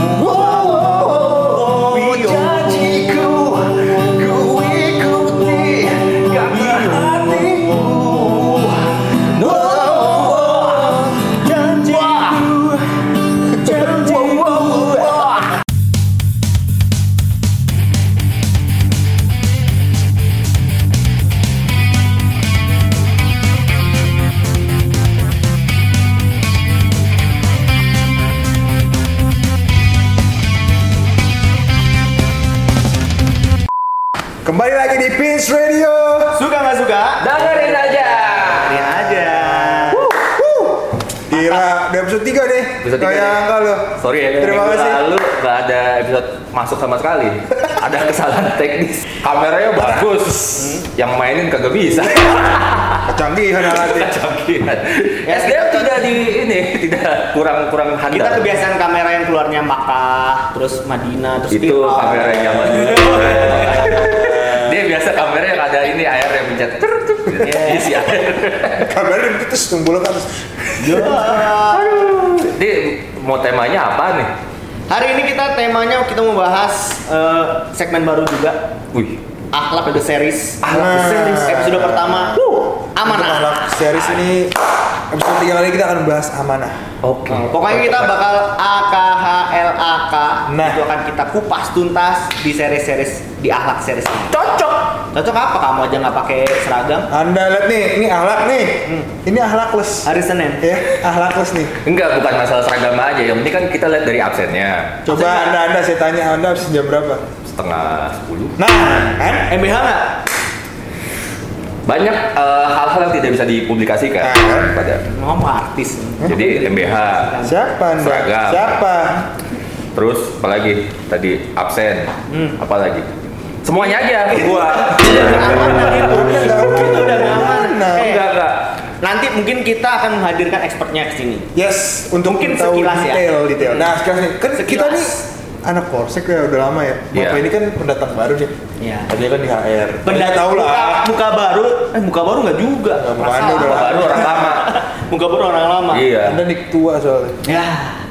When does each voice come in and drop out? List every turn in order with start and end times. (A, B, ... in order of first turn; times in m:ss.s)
0:00.1-0:03.0 A
0:00.2-0:01.8 B
0:02.5-0:06.3 B
0:04.3-0:04.6 A
0:05.2-0:08.6 A
0:06.3-0:07.4 C
0:07.4-0:08.6 B
0:09.3-0:12.8 A
0:09.4-0:10.9 C
0:13.4-0:15.4 A
0:13.8-0:15.3 C
0:34.4-0:36.4 D
0:36.3-0:40.1 A
0:37.2-0:39.1 C
0:39.6-0:45.0 D
0:39.9-0:40.3 C
0:41.3-0:41.6 A
0:42.8-0:43.4 C
0:44.0-0:53.1 C
0:50.6-0:50.8 A
0:53.0-0:54.2 D
0:53.6-0:58.6 C
0:55.2-0:56.1 A
0:58.1-1:04.2 A
1:01.5-1:08.9 C
1:04.2-1:04.6 D
1:07.4-1:07.9 A
1:08.8-1:11.1 D
1:10.8-1:12.2 A
1:11.7-1:14.3 C
1:14.9-1:18.6 A
1:19.5-1:22.4 A
1:20.7-1:24.6 D
1:22.4-1:22.7 C
1:22.9-1:23.7 A
1:25.1-1:26.8 D
1:27.0-1:28.2 C
1:27.3-1:34.5 A
1:30.5-1:30.8 D
1:34.3-1:34.9 C
1:35.0-1:37.1 A
1:37.1-1:40.1 D
1:40.0-1:40.7 A
1:40.6-1:41.7 D
1:41.8-1:45.0 C
1:45.0-1:45.5 A
1:45.0-1:47.2 D
1:47.4-1:48.6 C
1:48.6-1:49.5 D
1:49.5-1:50.2 A
1:51.8-1:55.0 C
1:54.2-1:54.7 D
1:55.1-1:57.6 A
1:56.3-1:57.3 C
1:57.4-1:59.3 D
1:58.0-1:58.8 C
1:59.9-2:06.0 C
2:02.3-2:02.6 A
2:03.8-2:08.3 A
2:05.2-2:08.2 D
2:07.9-2:08.7 C
2:09.0-2:11.5 A
2:11.5-2:18.5 D
2:12.2-2:13.9 A
2:14.5-2:15.2 A
2:17.1-2:17.4 C
2:18.8-2:19.1 A
2:19.1-2:21.1 D
2:20.0-2:26.1 A
2:22.9-2:24.5 D
2:23.4-2:24.7 C
2:25.9-2:26.4 C
2:26.2-2:27.4 D
2:27.4-2:28.0 A